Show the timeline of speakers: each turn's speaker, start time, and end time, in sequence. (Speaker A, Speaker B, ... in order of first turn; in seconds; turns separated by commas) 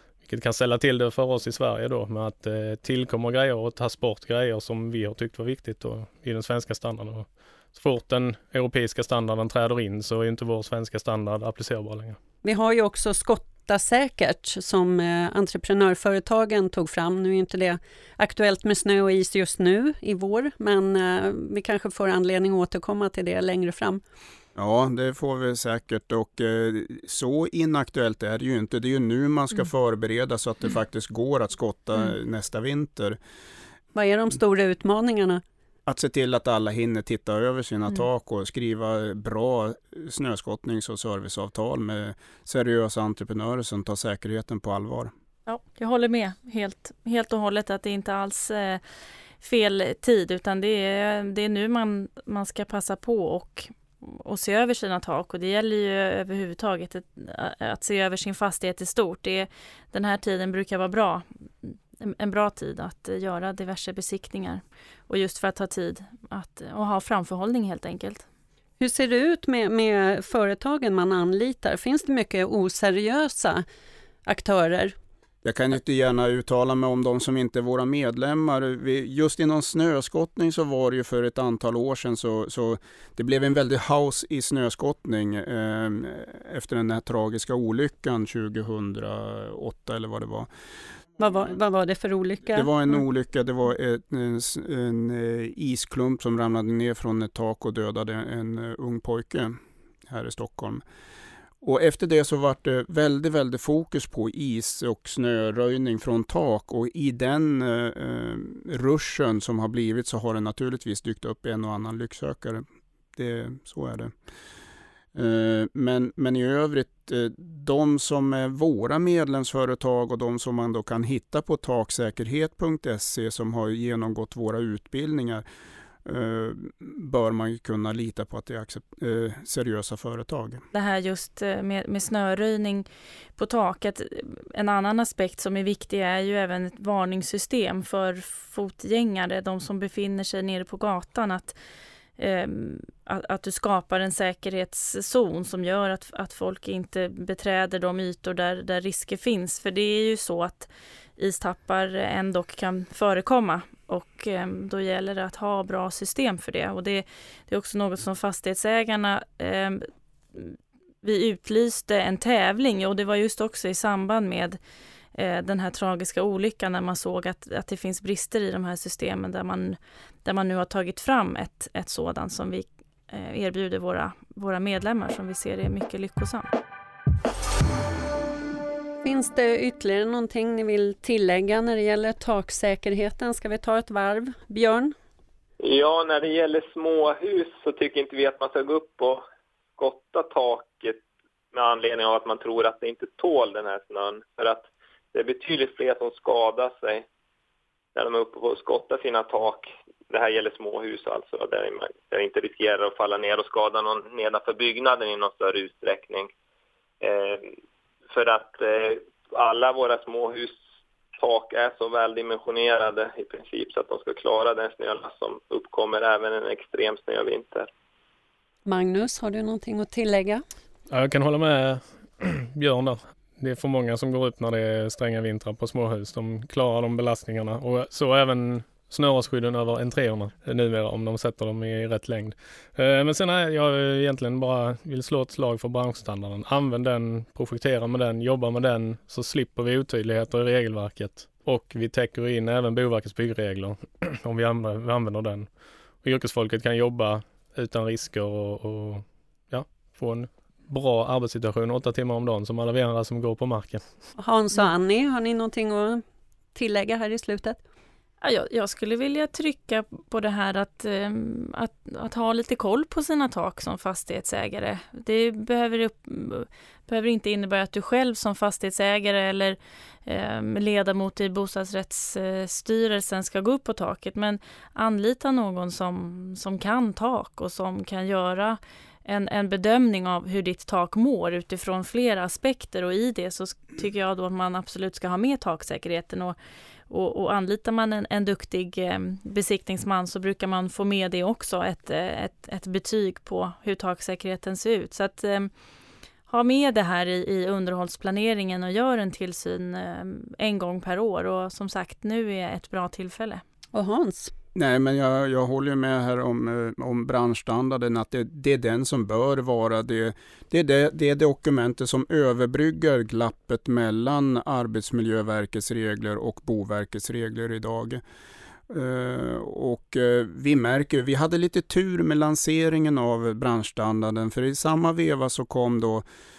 Speaker A: 0.2-12.2, Speaker B: 12.4-24.0, Speaker C: 24.6-33.2, Speaker B: 34.0-35.4, Speaker C: 35.9-45.1, Speaker D: 45.5-48.8, Speaker D: 49.4-68.3, Speaker B: 68.8-73.6, Speaker B: 74.3-75.0, Speaker C: 75.4-90.5, Speaker B: 91.2-92.7, Speaker C: 92.5-99.6, Speaker C: 100.1-100.8, Speaker C: 101.6-112.6, Speaker C: 113.2-114.1, Speaker C: 115.2-125.5, Speaker C: 126.0-130.6, Speaker D: 130.7-141.6, Speaker D: 142.2-164.6, Speaker D: 165.2-176.5, Speaker B: 179.0-184.9, Speaker E: 185.6-189.2, Speaker E: 189.8-191.0, Speaker E: 191.5-197.1, Speaker E: 197.9-206.3, Speaker E: 207.0-207.5, Speaker E: 208.1-210.6, Speaker E: 211.2-217.7, Speaker B: 218.7-220.4, Speaker A: 220.9-245.5, Speaker A: 246.0-253.8, Speaker B: 254.2-256.0, Speaker B: 256.6-257.6, Speaker D: 258.2-286.4, Speaker D: 286.9-295.5, Speaker D: 296.3-303.4, Speaker B: 303.7-304.3, Speaker C: 304.6-318.0, Speaker C: 318.7-326.1